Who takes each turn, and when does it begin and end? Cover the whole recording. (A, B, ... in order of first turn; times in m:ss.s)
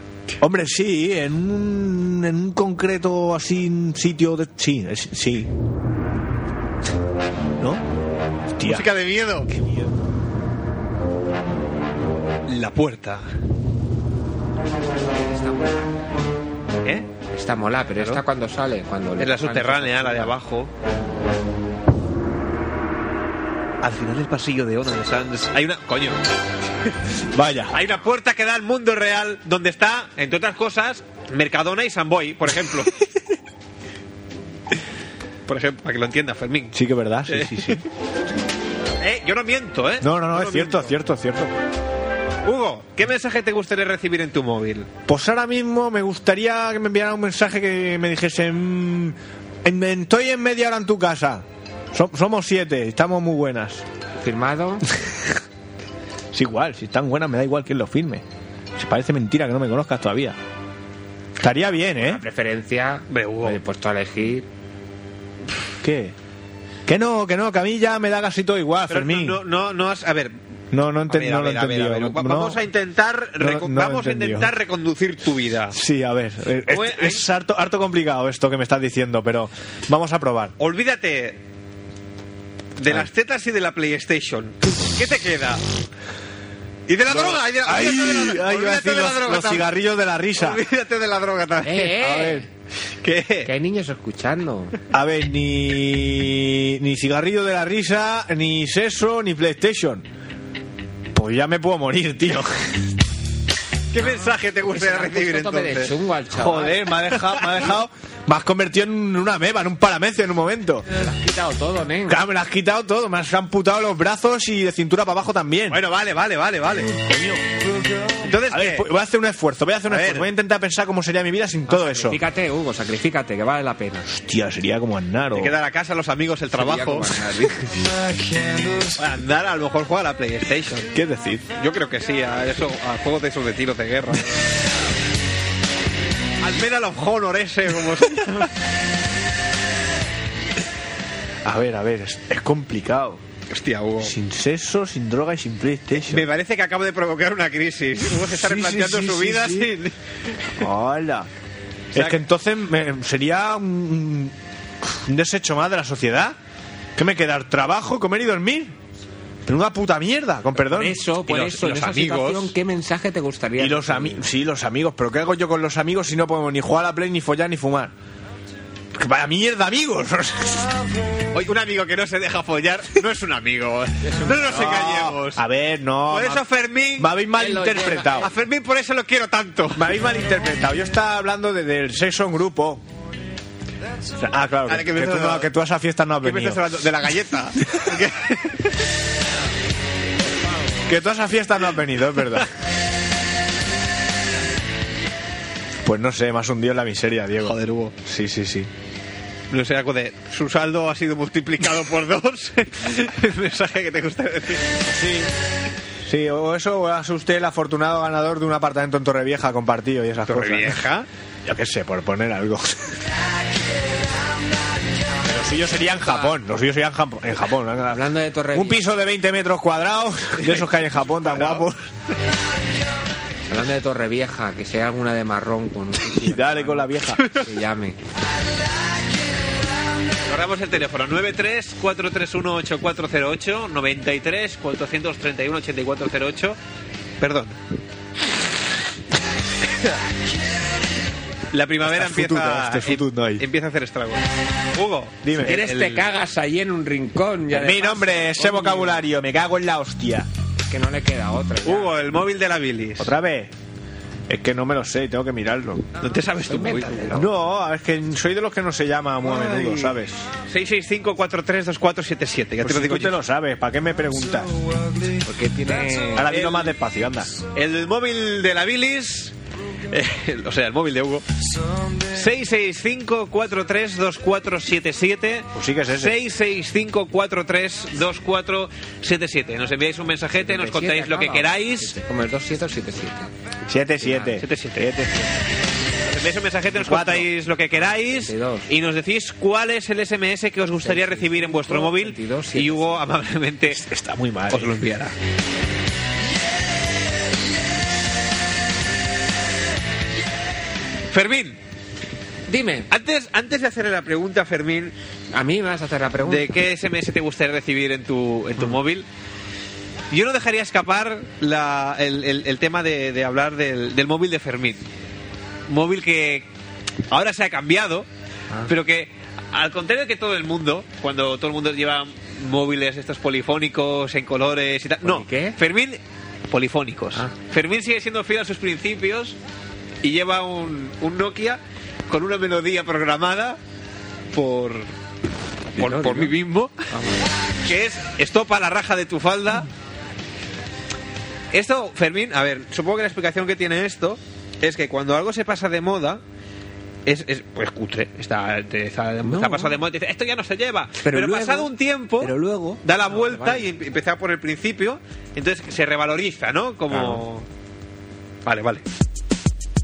0:00.4-0:05.5 A
0:07.6-0:07.8 A
0:08.6-0:08.9 A
0:08.6-0:09.5 B
0:09.5-0:09.9 A
0:12.5-0:13.3 B
0:14.9-0:16.0 C
0:16.8-0:17.1 B
0:17.3-0:20.4 C
0:19.2-0:20.7 B
0:23.8-0:26.2 B
0:27.3-0:27.8 A
0:27.7-0:33.0 B
0:35.5-0:37.8 B
0:36.7-0:37.8 A
0:39.0-0:40.9 B
0:40.0-0:41.5 A
0:42.4-0:44.9 B
0:45.1-0:53.8 A
0:54.2-0:54.9 C
0:56.3-0:58.2 A
0:58.8-1:00.4 A
1:01.4-1:02.2 A
1:01.9-1:04.5 C
1:03.1-1:03.6 B
1:05.8-1:06.2 A
1:06.9-1:09.4 A
1:08.9-1:10.4 B
1:10.7-1:12.6 A
1:11.1-1:15.8 B
1:13.4-1:14.5 A
1:15.7-1:20.5 A
1:16.7-1:17.3 B
1:20.6-1:21.4 B
1:22.8-1:25.6 B
1:26.9-1:29.7 B
1:27.1-1:30.6 A
1:30.4-1:32.0 B
1:31.6-1:32.5 C
1:32.0-1:32.4 A
1:33.0-1:33.5 B
1:33.4-1:34.8 C
1:34.9-1:40.1 A
1:41.1-1:42.8 A
1:43.9-1:45.9 B
1:44.7-1:46.8 C
1:46.3-1:50.9 A
1:47.2-1:47.6 B
1:51.0-1:52.2 C
1:52.1-1:55.8 A
1:55.7-1:56.9 B
1:56.9-1:57.5 A
1:58.2-1:58.9 B
1:58.4-2:02.2 A
1:59.9-2:00.3 B
2:01.7-2:04.1 C
2:04.1-2:05.6 A
2:05.3-2:07.2 B
2:06.5-2:07.8 C
2:09.0-2:10.9 B
2:10.9-2:11.5 A
2:11.6-2:14.4 B
2:16.4-2:18.5 B
2:21.4-2:23.2 A
2:23.5-2:24.1 B
2:24.0-2:26.3 A
2:26.1-2:29.9 B
2:28.3-2:29.7 A
2:30.6-2:31.3 A
2:31.9-2:36.4 A
2:37.0-2:38.7 A
2:39.5-2:41.0 A
2:40.7-2:44.3 C
2:41.2-2:42.5 B
2:43.6-2:47.9 A
2:48.9-2:50.8 A
2:51.3-2:55.4 B
2:54.0-2:54.5 C
2:54.4-2:56.4 A
2:56.1-2:57.1 B
2:57.0-2:58.3 A
2:57.4-2:58.3 C
2:58.2-2:59.9 B
2:59.8-3:02.8 A
3:04.2-3:06.8 A
3:04.7-3:05.5 B
3:06.2-3:08.7 B
3:10.9-3:12.5 A
3:15.8-3:18.7 A
3:17.4-3:18.0 B
3:19.5-3:24.8 B
3:24.9-3:25.3 A
3:26.0-3:30.8 A
3:30.3-3:31.1 B
3:31.4-3:33.0 A
3:35.2-3:41.8 A
3:36.0-3:36.3 C
3:37.9-3:38.8 C
3:41.2-3:41.7 B
3:43.5-3:48.0 C
3:46.1-3:47.2 A
3:50.3-3:56.6 B
3:57.2-3:57.6 B
3:59.7-4:00.0 B
4:01.5-4:06.1 B
4:01.8-4:03.4 A
4:05.2-4:05.6 A
4:05.4-4:09.0 C
4:07.5-4:10.3 A
4:10.7-4:12.0 C
4:11.6-4:13.1 B
4:13.0-4:13.5 A
4:14.3-4:15.9 A
4:16.0-4:17.2 B
4:16.5-4:17.3 C
4:17.1-4:20.3 A
4:19.2-4:20.0 B
4:20.5-4:23.2 B
4:22.6-4:24.5 A
4:25.2-4:26.3 C
4:26.1-4:27.3 A
4:26.2-4:26.7 B
4:27.5-4:29.4 B
4:29.9-4:31.3 B
4:32.1-4:42.0 B
4:35.5-4:36.2 A
4:40.4-4:43.3 C
4:43.6-4:45.3 A
4:44.0-4:44.4 C
4:44.4-4:44.9 B
4:46.0-4:53.8 B
4:46.8-4:47.3 A
4:48.1-4:48.7 C
4:50.8-4:53.0 C
4:53.7-4:54.9 A
4:54.5-4:55.2 B
5:01.1-5:01.6 B
5:02.5-5:02.9 C
5:02.9-5:04.9 B
5:05.3-5:06.5 C
5:06.2-5:09.1 B
5:10.1-5:14.8 B
5:15.7-5:16.5 B
5:17.1-5:18.1 B
5:18.7-5:26.0 B
5:25.0-5:25.6 C
5:26.5-5:29.4 B
5:30.0-5:33.6 B
5:34.3-5:34.9 B
5:35.7-5:36.4 C
5:35.8-5:36.8 B
5:36.9-5:37.3 C
5:37.6-5:39.7 B
5:41.5-5:46.2 B
5:47.1-5:57.5 B
5:49.2-5:49.8 C
5:51.0-5:53.6 C
5:56.9-5:57.2 C
5:58.4-5:58.8 B